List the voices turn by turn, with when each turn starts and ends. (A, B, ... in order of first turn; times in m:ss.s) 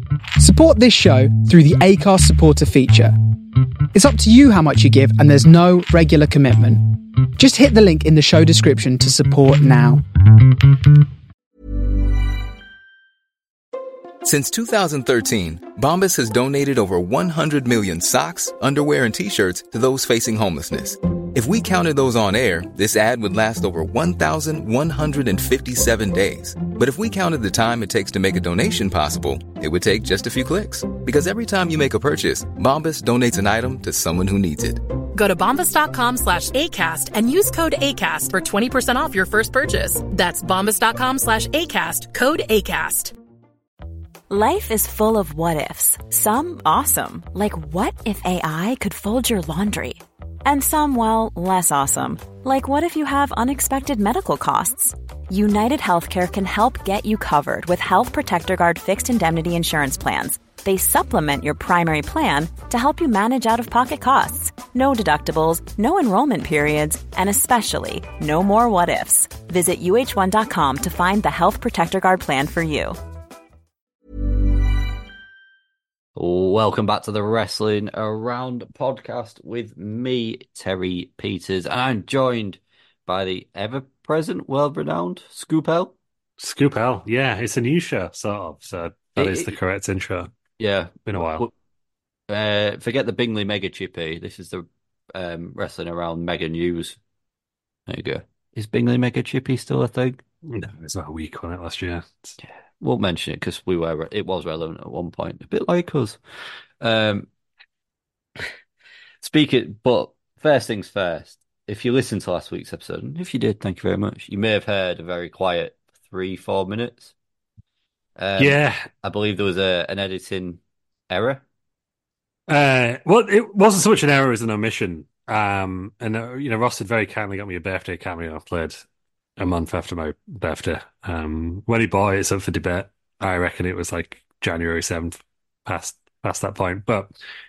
0:00.4-0:03.1 A
0:03.9-0:10.0 A
0:14.2-0:34.8 B
0:35.2-0:43.1 C
0:44.3-1:13.0 D
1:16.2-1:25.9 E
1:26.4-1:30.3 F
1:29.2-1:29.6 E
1:30.6-1:31.5 E
1:31.1-1:31.4 F
1:32.3-1:37.0 E
1:37.9-1:40.2 E
1:40.5-1:42.4 F
1:42.4-1:46.2 E
1:46.8-1:47.3 E
1:49.2-1:57.1 E
1:58.2-2:01.4 E
1:58.4-1:58.8 F
2:02.5-2:08.8 F
2:09.4-2:17.1 F